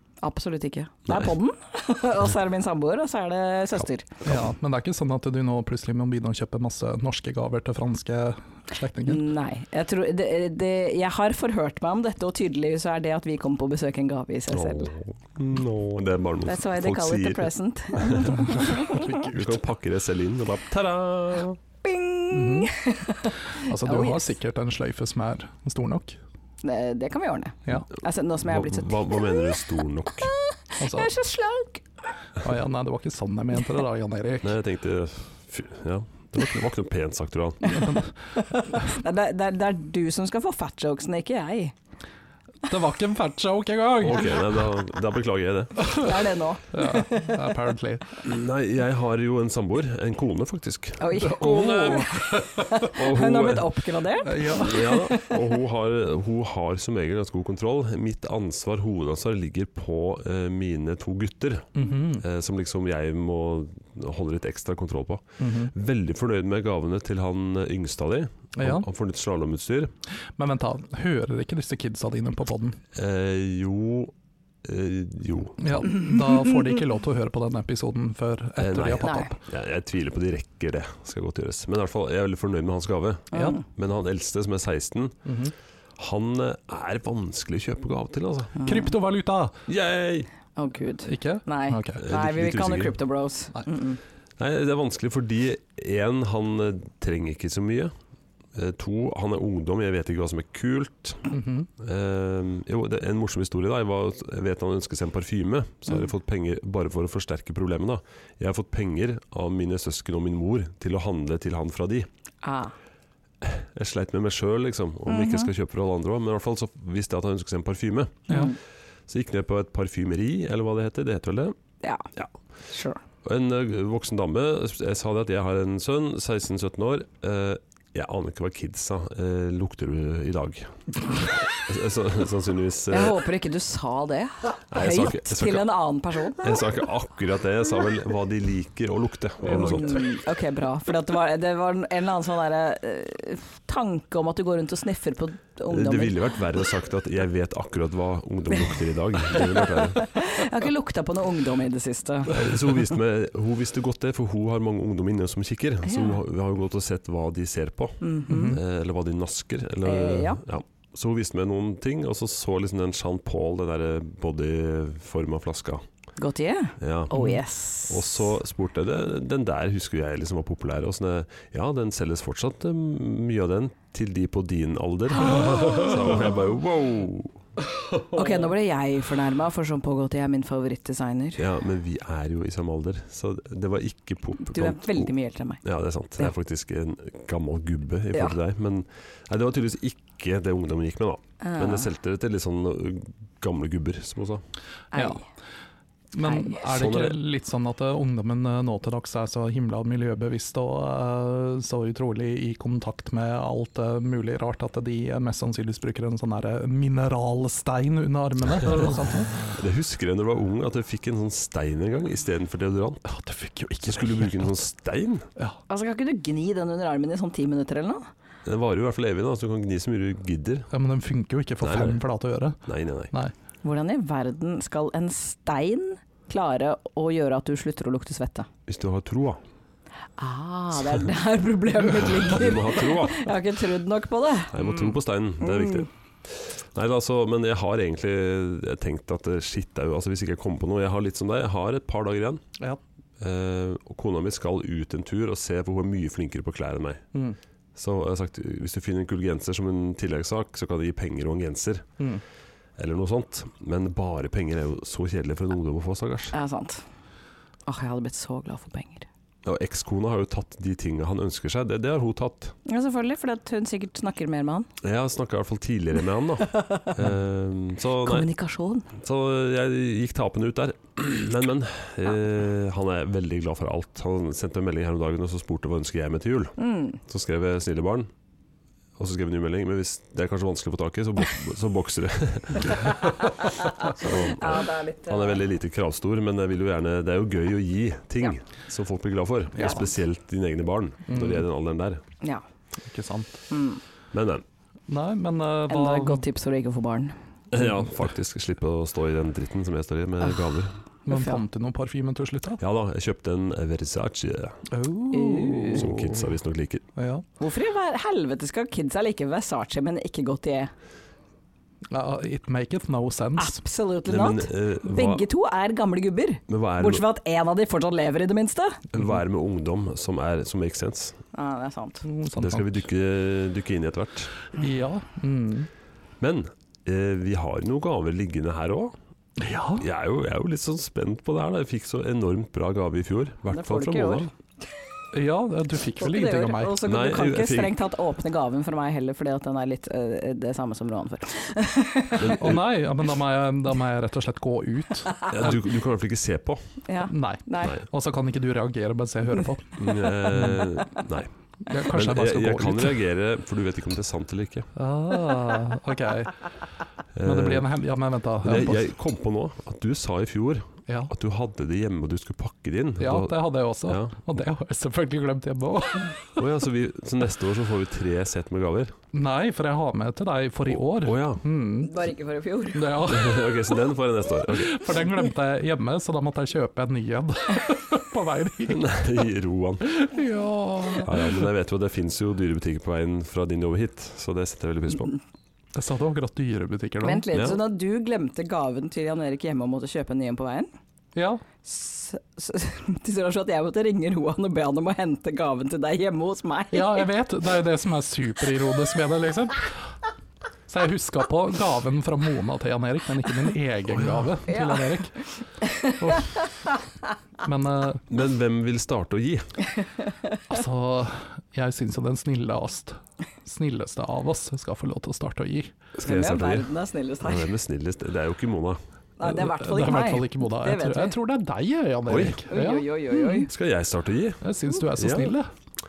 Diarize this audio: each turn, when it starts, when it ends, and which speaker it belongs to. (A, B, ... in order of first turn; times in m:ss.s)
0:00.2-0:04.2 A
0:04.2-0:09.2 B
0:09.1-0:14.9 A
0:14.5-0:18.5 C
0:16.5-0:19.1 A
0:18.3-0:19.6 B
0:19.2-0:21.6 C
0:21.8-0:24.3 A
0:22.3-0:22.7 B
0:23.5-0:26.2 B
0:26.6-0:29.6 A
0:28.4-0:30.3 C
0:30.4-0:31.8 A
0:30.8-0:31.1 B
0:32.4-0:34.6 B
0:34.4-0:37.8 C
0:37.7-0:38.1 B
0:38.4-0:41.8 A
0:42.7-0:44.6 B
0:44.0-0:46.0 C
0:45.8-0:46.2 B
0:45.9-0:47.4 A
0:46.7-0:48.2 B
0:48.2-0:52.1 C
0:51.0-0:55.4 A
0:51.2-0:52.9 B
0:52.9-0:53.8 C
0:54.2-0:55.0 B
0:54.4-1:09.9 C
1:01.8-1:02.2 B
1:05.4-1:05.7 B
1:08.6-1:08.9 B
1:10.4-1:12.8 B
1:13.0-1:14.1 C
1:14.6-1:15.9 C
1:15.6-1:19.4 B
1:18.6-1:25.2 C
1:19.0-1:19.3 A
1:23.3-1:23.6 A
1:25.2-1:25.5 B
1:26.0-1:28.6 C
1:28.6-1:28.9 A
1:28.6-1:29.6 B
1:29.7-1:30.3 C
1:30.6-1:34.0 A
1:31.1-1:32.0 B
1:32.0-1:33.0 C
1:34.4-1:37.9 C
1:38.5-1:52.1 C
1:41.3-1:41.7 B
1:52.4-1:52.7 A
1:53.4-1:58.4 C
1:55.1-1:55.5 A
1:58.3-1:58.6 A
1:59.1-2:01.6 C
2:01.8-2:02.1 A
2:02.7-2:03.0 A
2:03.2-2:13.2 C
2:12.9-2:16.6 A
2:14.7-2:15.7 C
2:16.4-2:20.1 C
2:19.5-2:26.2 A
2:25.7-2:30.1 C
2:30.0-2:32.4 A
2:32.3-2:45.8 C
2:35.9-2:36.2 A
2:38.0-2:38.6 A
2:38.3-2:38.6 B
2:39.8-2:40.4 A
2:46.2-2:48.2 A
2:46.8-2:47.1 C
2:47.1-2:47.4 B
2:47.9-2:57.4 C
2:55.2-2:56.0 A
2:58.1-3:01.4 A
3:01.4-3:05.1 C
3:04.4-3:05.6 A
3:05.6-3:14.4 C
3:11.4-3:11.9 A
3:14.9-3:15.2 A
3:14.9-3:15.2 B
3:16.1-3:29.5 B
3:16.2-3:16.6 A
3:16.7-3:17.2 C
3:29.4-3:33.0 C
3:33.1-3:34.5 B
3:33.9-3:35.3 C
3:35.7-3:38.1 A
3:38.4-3:40.7 C
3:40.7-3:42.6 B
3:41.6-3:42.0 C
3:42.7-3:43.1 C
3:43.6-3:48.5 A
3:48.7-3:49.4 C
3:50.2-3:54.6 A
3:52.2-3:53.3 C
3:54.5-4:02.4 C
3:55.4-3:55.9 A
4:03.2-4:07.0 C
4:07.8-4:11.9 C
4:12.8-4:16.3 C
4:16.3-4:16.8 A
4:17.7-4:19.1 A
4:19.4-4:22.6 C
4:22.7-4:24.7 A
4:24.8-4:28.3 C
4:26.5-4:26.9 A
4:28.0-4:28.9 A
4:29.0-4:38.1 C
4:36.6-4:37.0 A
4:39.0-4:43.2 C
4:42.9-4:45.4 A
4:43.8-4:52.0 C
4:49.6-4:49.9 B
4:51.1-4:51.4 B
4:52.8-4:53.3 B
4:53.5-4:53.8 A
4:54.1-4:54.4 C
4:54.9-4:56.2 B
4:55.7-4:57.2 A
4:57.5-5:00.8 C
5:01.1-5:02.6 B
5:01.1-5:01.4 A
5:02.6-5:04.6 C
5:04.7-5:06.3 B
5:05.1-5:05.9 A
5:05.7-5:06.8 C
5:07.0-5:07.2 B
5:07.4-5:10.7 A
5:11.9-5:13.6 B
5:13.4-5:18.8 A
5:14.1-5:15.2 C
5:16.5-5:17.0 C
5:18.9-5:21.2 C
5:21.3-5:22.0 A
5:22.0-5:22.9 B
5:22.4-5:24.4 C
5:24.6-5:25.7 B
5:26.2-5:28.9 C
5:29.4-5:29.9 B
5:29.8-5:34.3 C
5:33.5-5:34.3 A
5:35.1-5:36.8 B
5:36.0-5:42.3 A
5:36.8-5:37.7 C
5:42.2-5:42.6 C
5:42.4-5:45.2 B
5:45.3-5:46.6 C
5:46.9-5:47.8 A
5:47.1-5:50.7 B
5:49.8-5:51.3 C
5:51.6-5:53.0 B
5:51.9-5:54.7 C
5:54.8-5:56.4 B
5:57.2-5:57.7 C
5:57.2-5:58.9 B
5:58.4-6:04.2 C
6:00.9-6:01.1 B
6:03.0-6:06.4 B
6:06.4-6:08.9 C
6:09.1-6:11.9 B
6:10.9-6:11.4 C
6:11.8-6:13.1 A
6:12.7-6:13.6 B
6:13.1-6:15.0 C
6:14.5-6:18.9 B
6:18.7-6:19.9 C
6:19.8-6:21.5 B
6:21.0-6:25.2 C
6:25.8-6:27.3 B
6:27.0-6:30.7 A
6:27.3-6:27.6 C
6:31.2-6:31.4 B
6:31.6-6:37.1 A
6:36.7-6:39.9 B
6:40.7-6:45.2 B
6:43.9-6:44.3 C
6:44.5-6:44.9 A
6:45.6-6:46.5 A
6:46.0-6:46.4 B
6:47.4-6:48.0 B
6:48.1-6:49.6 C
6:50.5-6:55.8 B
6:56.0-6:56.7 C
6:56.0-6:57.5 A
6:57.2-6:58.8 C
6:59.2-7:01.2 A
6:59.2-7:03.4 B
7:02.1-7:02.4 C
7:02.5-7:03.5 A
7:03.5-7:05.3 C
7:04.4-7:05.5 B